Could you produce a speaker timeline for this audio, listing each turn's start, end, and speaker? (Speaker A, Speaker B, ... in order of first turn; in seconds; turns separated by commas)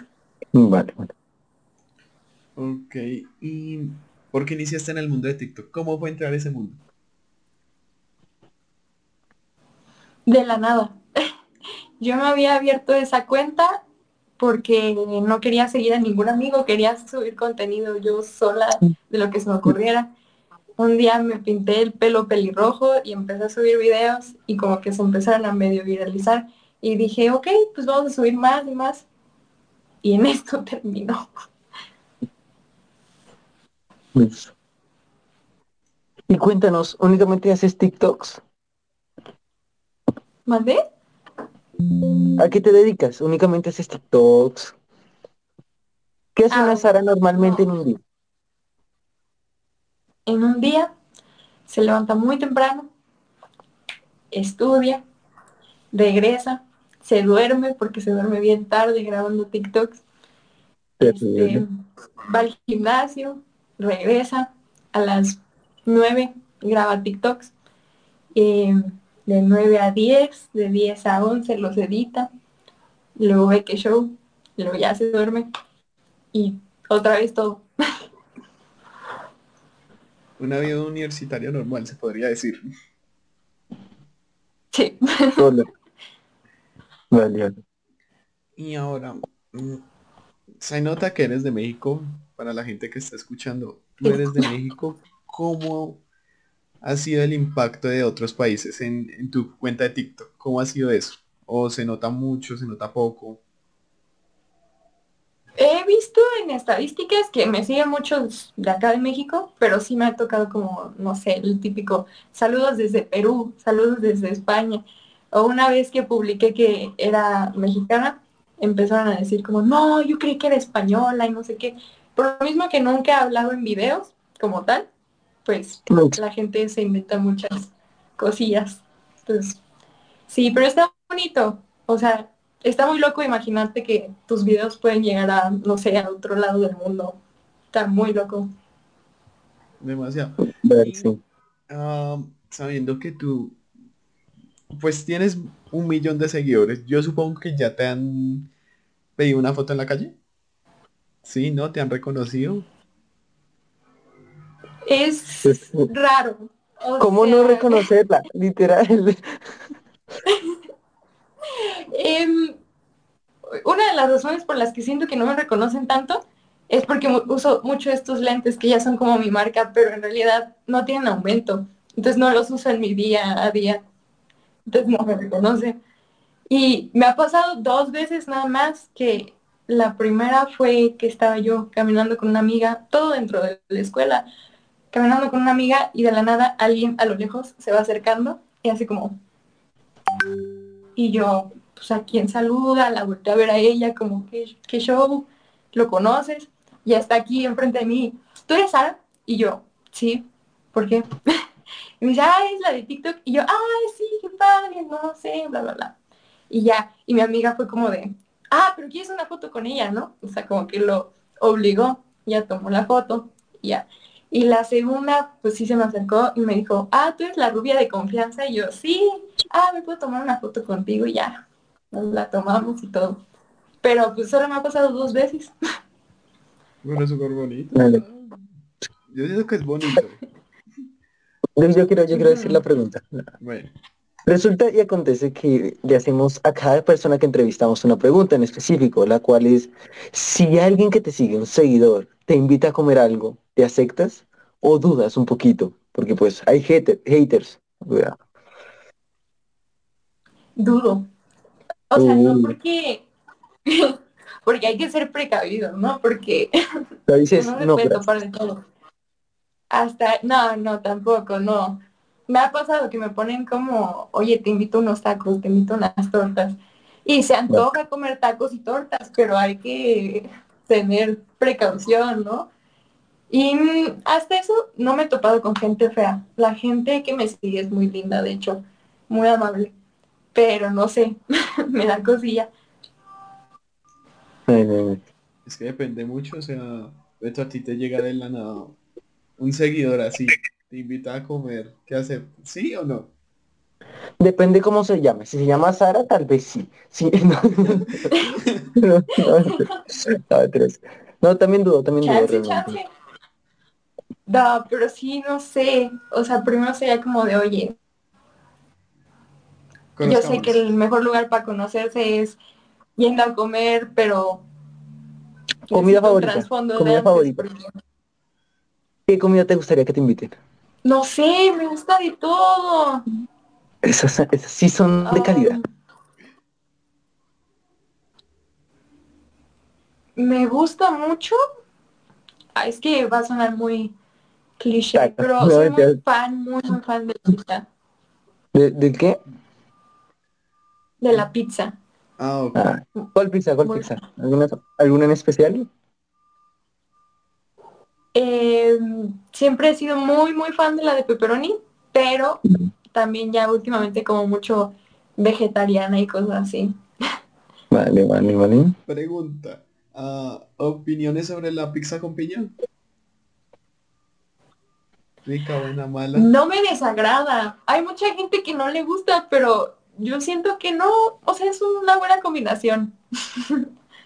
Speaker A: 0.5-1.1, Speaker B: 2.5-6.8, Speaker C: 10.3-11.0, Speaker C: 12.0-13.8, Speaker C: 14.4-20.1, Speaker C: 20.8-29.1, Speaker C: 30.0-31.3, Speaker A: 34.1-34.5, Speaker A: 36.3-38.4, Speaker C: 40.5-40.8, Speaker A: 42.4-44.7, Speaker A: 46.3-48.0, Speaker C: 46.5-47.6, Speaker C: 50.3-50.9, Speaker C: 51.7-52.9, Speaker C: 54.3-55.0, Speaker C: 55.9-60.0, Speaker A: 61.0-61.6, Speaker C: 61.0-61.6, Speaker C: 62.3-67.5, Speaker C: 68.3-72.3, Speaker C: 73.2-75.5, Speaker C: 76.3-77.6, Speaker B: 80.4-82.6, Speaker C: 84.7-85.5, Speaker A: 85.4-85.7, Speaker A: 87.1-87.5, Speaker B: 88.6-89.8, Speaker B: 90.6-96.0, Speaker B: 96.8-103.4, Speaker C: 105.6-124.9, Speaker C: 125.4-129.6, Speaker A: 125.9-126.2, Speaker C: 130.3-137.2, Speaker C: 137.7-138.5, Speaker B: 139.8-141.1, Speaker A: 140.6-141.2, Speaker B: 141.7-143.6, Speaker B: 144.7-148.5, Speaker B: 149.2-150.2, Speaker B: 151.2-152.7, Speaker C: 154.8-157.8, Speaker A: 155.4-155.9, Speaker A: 157.0-159.3, Speaker C: 161.6-162.6, Speaker C: 163.5-173.8, Speaker C: 174.7-175.8, Speaker C: 176.5-184.3, Speaker C: 184.9-189.2, Speaker C: 190.9-201.1, Speaker C: 202.0-205.9, Speaker C: 206.5-223.2, Speaker C: 223.8-225.5, Speaker B: 226.8-228.4, Speaker A: 227.7-228.0, Speaker B: 229.1-230.2, Speaker A: 231.6-233.3, Speaker C: 232.1-232.6, Speaker B: 233.4-233.7, Speaker A: 234.2-248.2, Speaker C: 250.6-251.1, Speaker C: 251.9-253.1, Speaker A: 251.9-252.6, Speaker C: 253.7-256.5, Speaker A: 257.1-258.0, Speaker C: 257.4-258.6, Speaker C: 259.7-272.5, Speaker C: 273.3-279.7, Speaker C: 280.3-281.2, Speaker C: 281.7-282.5, Speaker A: 284.5-285.0, Speaker B: 285.4-288.8, Speaker B: 289.4-293.1, Speaker A: 294.2-298.1, Speaker A: 298.8-302.8, Speaker C: 299.2-299.8, Speaker C: 302.0-302.9, Speaker C: 304.3-307.8, Speaker B: 309.9-310.6, Speaker C: 310.0-312.4, Speaker C: 313.0-314.4, Speaker C: 315.7-317.7, Speaker A: 315.7-317.4, Speaker A: 319.1-320.4, Speaker C: 320.8-323.0, Speaker A: 323.8-325.6, Speaker C: 325.0-325.6, Speaker C: 330.1-331.4, Speaker C: 332.6-333.9, Speaker C: 334.6-337.6, Speaker A: 334.9-336.0, Speaker A: 338.5-339.2, Speaker C: 341.0-341.8, Speaker B: 342.2-342.8, Speaker A: 342.5-345.7, Speaker C: 348.1-356.8, Speaker A: 357.7-358.8, Speaker B: 358.9-362.5, Speaker B: 365.2-366.4, Speaker C: 366.1-373.7